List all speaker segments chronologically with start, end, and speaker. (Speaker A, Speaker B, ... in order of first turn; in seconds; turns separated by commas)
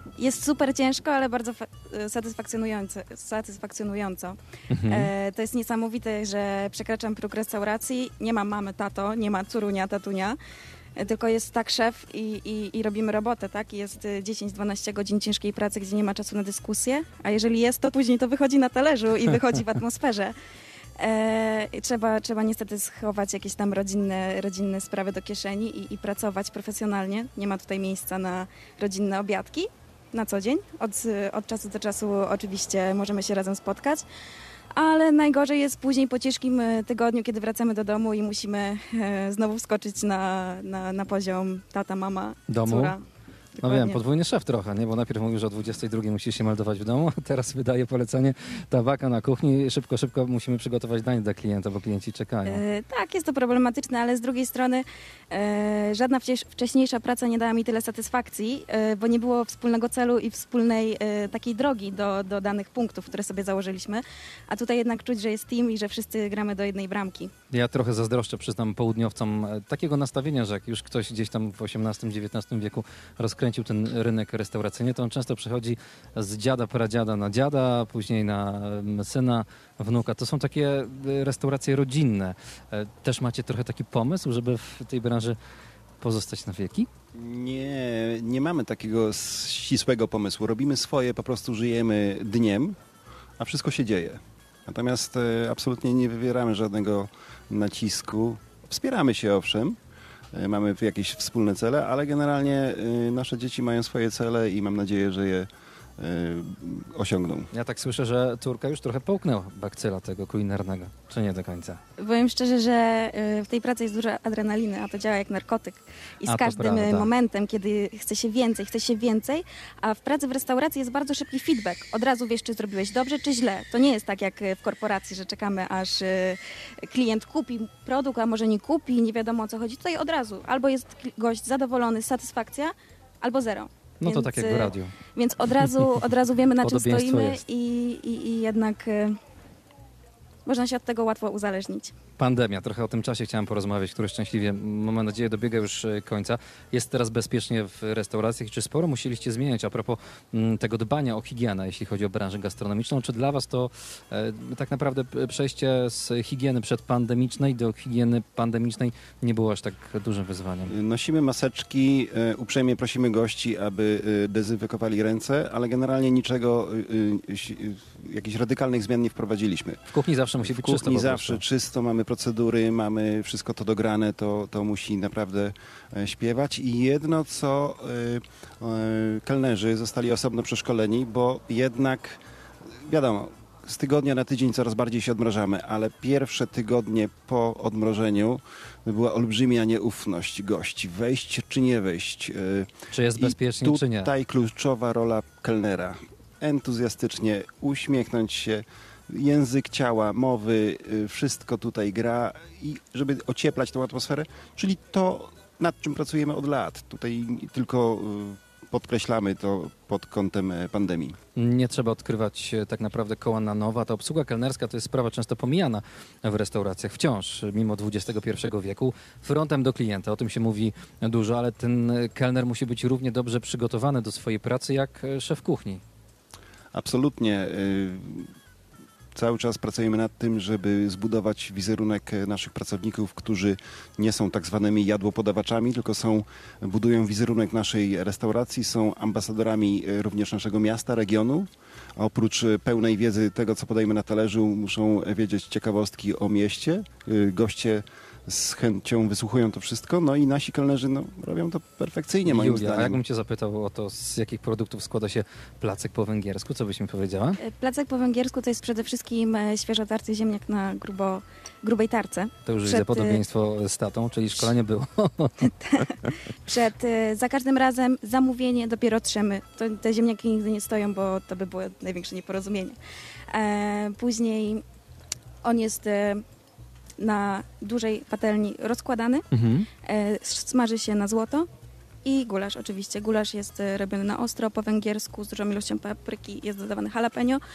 Speaker A: 0.2-10.4, Speaker B: 4.7-5.1, Speaker A: 11.0-20.4, Speaker A: 21.0-34.0, Speaker A: 34.8-43.0, Speaker B: 42.5-43.0, Speaker A: 43.5-44.0, Speaker B: 43.6-52.6, Speaker A: 52.5-67.3, Speaker B: 67.5-85.4, Speaker B: 86.0-86.9, Speaker C: 87.1-92.8, Speaker C: 93.4-99.8, Speaker C: 100.3-105.5, Speaker C: 106.0-107.5, Speaker B: 107.5-111.8, Speaker A: 112.0-139.2, Speaker B: 116.3-117.1, Speaker B: 134.0-134.9, Speaker B: 136.6-137.4, Speaker A: 140.5-141.9, Speaker B: 142.2-160.7, Speaker C: 160.7-169.9, Speaker B: 169.9-171.4, Speaker C: 170.4-182.2, Speaker C: 182.9-211.2, Speaker B: 192.9-194.1, Speaker B: 211.4-225.8, Speaker C: 226.7-228.3, Speaker C: 229.2-253.0, Speaker B: 252.2-257.4, Speaker A: 257.4-263.2, Speaker B: 262.4-265.5, Speaker A: 265.5-272.8, Speaker A: 273.3-274.6, Speaker A: 275.4-276.2, Speaker A: 277.0-279.3, Speaker B: 279.3-279.7, Speaker A: 279.8-281.5, Speaker A: 282.1-287.4